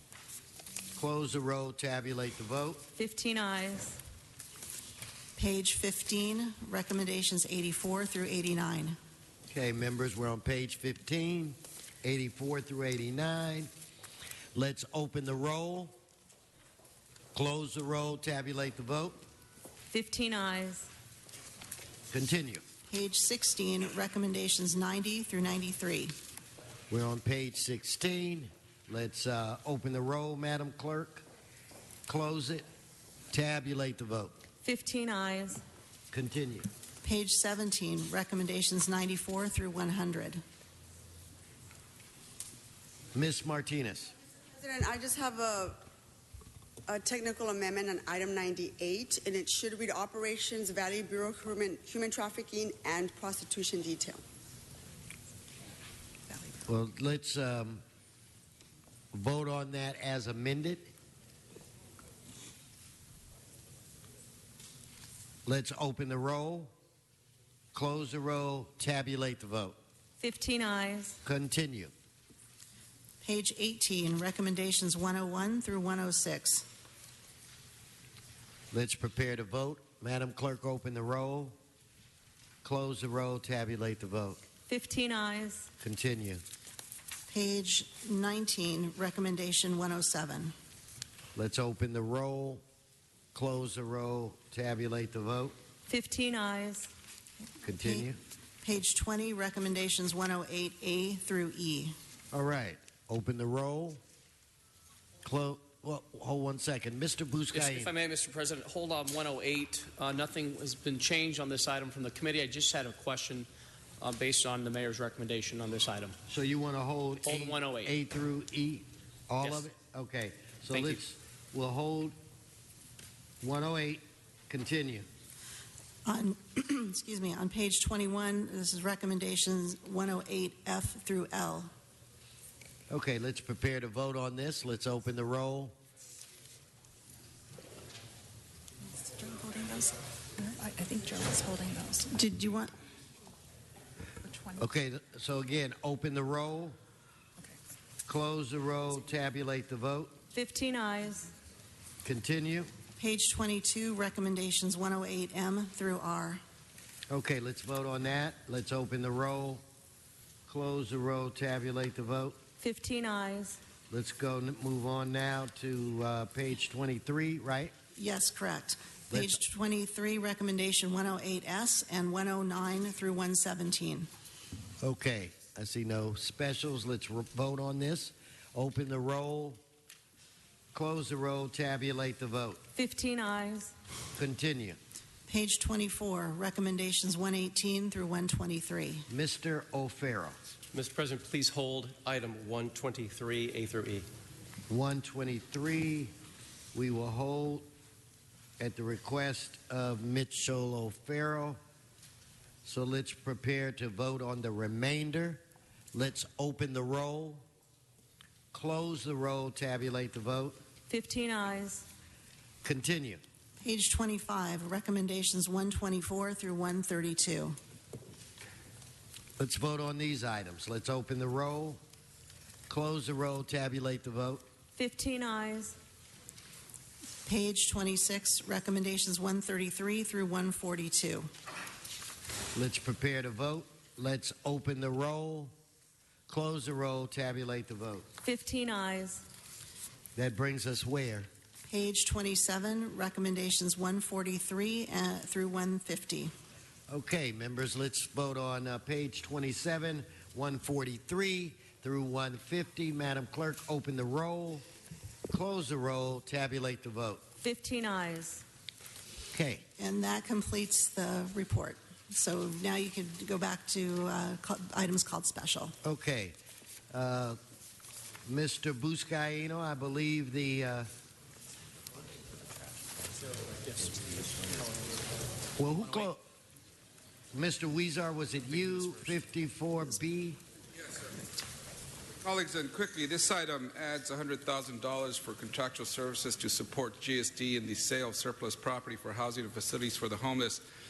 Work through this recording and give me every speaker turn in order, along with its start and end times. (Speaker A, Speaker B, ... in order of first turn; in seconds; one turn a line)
Speaker A: 0.9-2.9
Speaker B: 3.0-4.0
Speaker C: 5.4-9.0
Speaker A: 9.5-13.7
Speaker A: 14.6-15.9
Speaker A: 17.3-19.2
Speaker B: 19.9-20.9
Speaker A: 22.1-22.6
Speaker C: 22.9-26.1
Speaker A: 26.9-31.2
Speaker A: 32.1-32.6
Speaker A: 33.3-34.4
Speaker B: 34.6-35.6
Speaker A: 36.1-36.7
Speaker C: 37.0-40.4
Speaker A: 43.1-44.1
Speaker D: 44.6-45.9
Speaker D: 46.9-54.2
Speaker A: 56.6-57.8
Speaker A: 59.1-60.9
Speaker A: 65.5-66.7
Speaker A: 67.7-69.8
Speaker B: 70.2-71.2
Speaker A: 71.2-71.9
Speaker C: 73.2-76.7
Speaker A: 78.7-81.5
Speaker A: 82.6-84.4
Speaker B: 84.7-85.7
Speaker A: 85.8-86.4
Speaker C: 87.3-90.5
Speaker A: 91.3-92.6
Speaker A: 93.3-95.6
Speaker B: 95.9-96.9
Speaker A: 97.6-98.2
Speaker C: 98.6-102.0
Speaker A: 102.3-104.0
Speaker A: 105.2-107.9
Speaker E: 107.5-113.5
Speaker E: 114.0-116.2
Speaker A: 116.3-122.2
Speaker E: 117.2-118.0
Speaker E: 119.4-119.7
Speaker E: 120.7-121.0
Speaker A: 123.4-125.1
Speaker C: 126.1-131.7
Speaker A: 132.9-135.8
Speaker F: 139.0-142.1
Speaker C: 142.1-142.7
Speaker A: 144.6-146.8
Speaker A: 148.1-150.2
Speaker B: 150.3-151.3
Speaker A: 152.0-152.7
Speaker C: 153.0-156.4
Speaker A: 157.1-159.6
Speaker A: 160.5-162.4
Speaker B: 162.6-163.6
Speaker A: 163.9-167.8
Speaker C: 168.0-174.1
Speaker A: 174.8-179.6
Speaker A: 180.7-182.6
Speaker B: 182.8-183.7
Speaker A: 184.2-184.8
Speaker C: 185.3-189.1
Speaker A: 189.1-190.4
Speaker G: 190.7-194.1
Speaker A: 194.7-196.1
Speaker A: 196.7-197.7
Speaker A: 198.6-201.6
Speaker A: 202.6-205.4
Speaker A: 205.9-207.4
Speaker A: 208.5-210.6
Speaker B: 210.9-211.9
Speaker A: 212.6-213.2
Speaker C: 213.6-217.6
Speaker A: 219.4-221.8
Speaker A: 222.7-224.4
Speaker B: 224.8-225.8
Speaker C: 227.3-231.3
Speaker A: 232.6-235.5
Speaker A: 236.3-238.1
Speaker B: 238.2-239.2
Speaker A: 240.2-241.3
Speaker C: 241.7-246.3
Speaker A: 246.9-254.7
Speaker A: 255.3-257.2
Speaker B: 257.4-258.4
Speaker A: 259.3-259.7
Speaker C: 259.8-265.7
Speaker A: 265.8-266.4
Speaker A: 266.9-267.4
Speaker A: 268.3-270.9
Speaker E: 273.3-275.1
Speaker A: 275.6-276.2
Speaker A: 277.3-280.4
Speaker H: 282.2-290.6